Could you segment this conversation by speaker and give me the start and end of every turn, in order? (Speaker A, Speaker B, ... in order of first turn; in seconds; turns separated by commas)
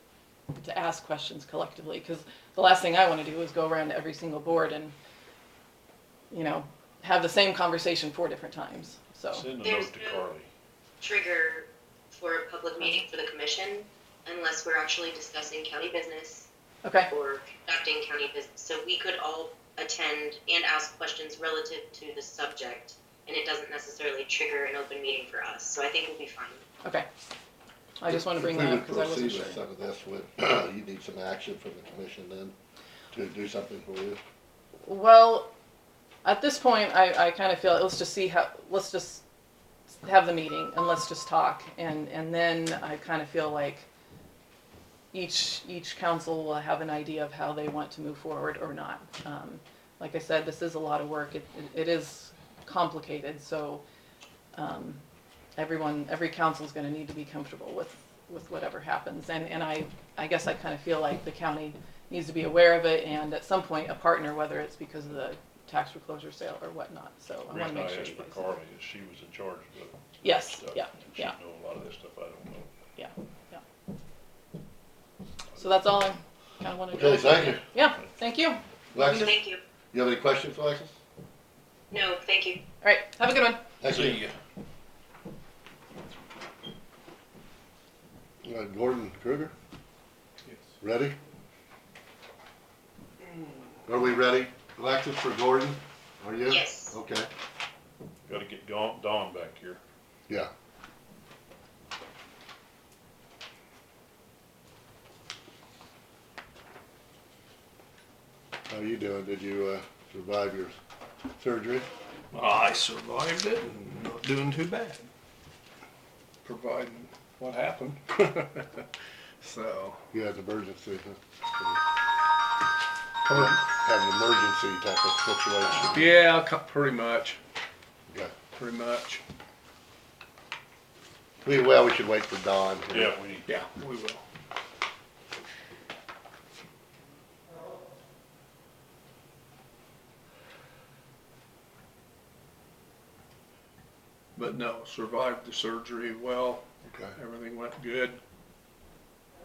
Speaker A: 0.5-4.9, Speaker A: 6.3-9.5, Speaker B: 9.3-10.5, Speaker C: 9.6-10.2, Speaker C: 11.0-16.5, Speaker A: 16.8-17.1, Speaker C: 17.1-26.6, Speaker A: 28.0-29.6, Speaker D: 28.1-32.5, Speaker D: 33.1-34.2, Speaker A: 34.8-35.5, Speaker A: 36.2-39.2, Speaker A: 39.9-43.9, Speaker A: 45.1-53.8, Speaker A: 54.5-55.0, Speaker A: 55.6-68.5, Speaker B: 67.5-72.7, Speaker A: 70.2-71.3, Speaker A: 73.0-73.6, Speaker A: 75.6-79.0, Speaker D: 76.9-77.6, Speaker D: 78.9-79.4, Speaker C: 79.0-79.6, Speaker D: 79.9-81.0, Speaker C: 81.9-82.6, Speaker A: 82.8-83.6, Speaker D: 83.8-84.2, Speaker B: 83.8-84.3, Speaker D: 88.4-89.5, Speaker D: 90.8-91.1, Speaker D: 93.9-97.3, Speaker C: 96.5-96.9, Speaker B: 98.3-99.8, Speaker D: 108.7-110.8, Speaker D: 111.3-111.9, Speaker E: 112.3-115.1, Speaker E: 116.4-118.9, Speaker E: 119.4-120.0, Speaker D: 120.1-121.8, Speaker E: 123.2-123.6, Speaker D: 123.3-126.1, Speaker E: 125.9-127.4, Speaker D: 128.1-128.3, Speaker E: 128.5-129.2, Speaker D: 131.4-133.2, Speaker B: 132.9-133.5, Speaker E: 133.4-134.2, Speaker E: 144.3-148.2, Speaker D: 146.8-147.2